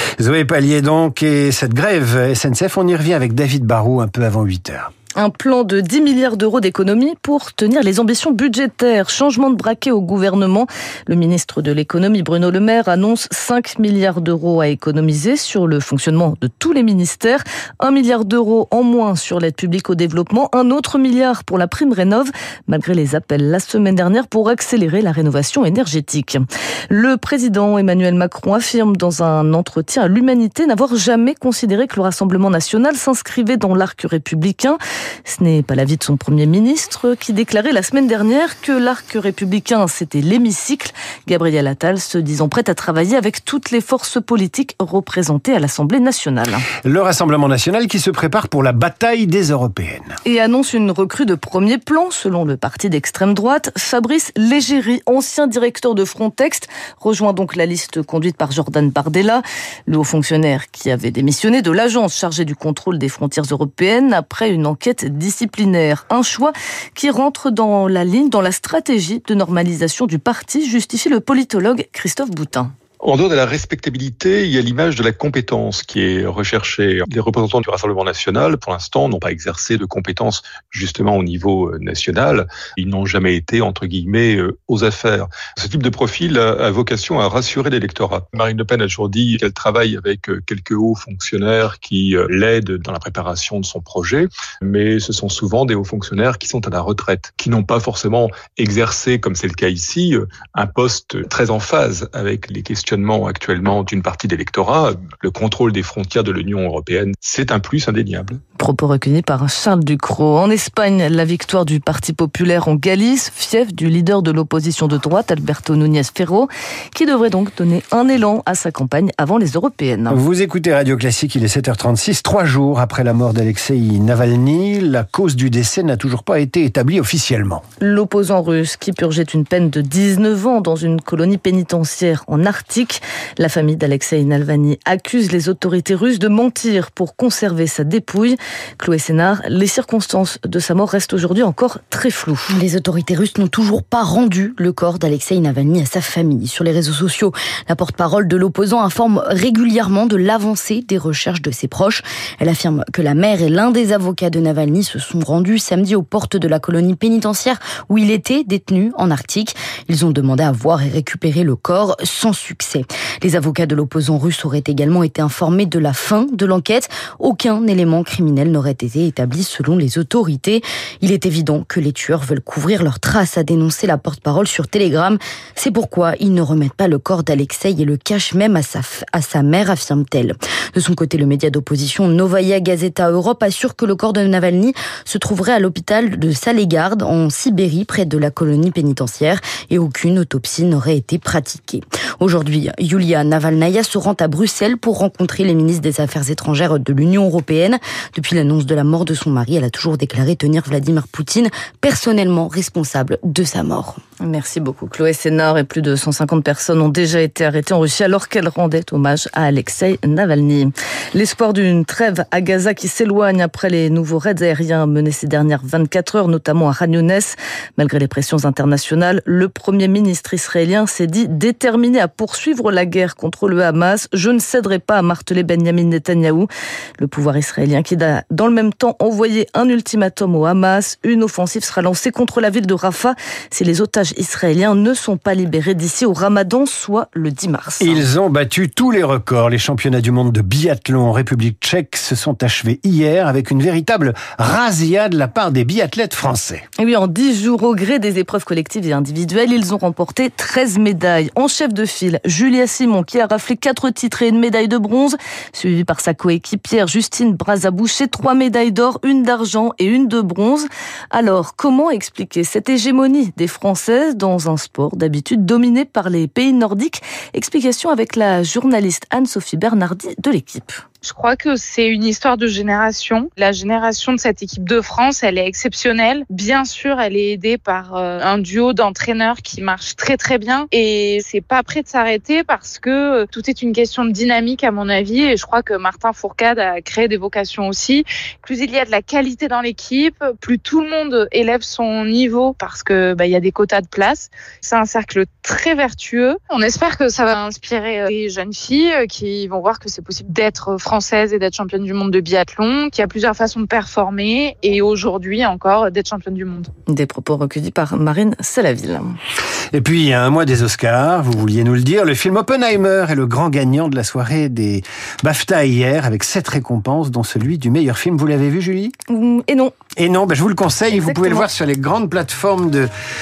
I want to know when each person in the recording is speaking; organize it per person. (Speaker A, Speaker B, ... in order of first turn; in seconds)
Speaker A: 0.2-4.9, 46.9-50.1, 120.1-127.6, 237.8-246.6, 309.7-318.9, 320.0-322.9
Speaker B: 5.2-46.6, 50.2-72.7, 108.6-120.2, 127.8-142.6, 204.2-238.1, 246.8-270.8, 306.9-309.2, 319.1-319.7, 320.9-321.5
Speaker C: 73.0-108.4
Speaker D: 142.5-204.0
Speaker E: 271.1-271.7, 273.3-274.3, 274.8-277.2, 277.9-287.9, 288.6-294.3, 294.8-306.6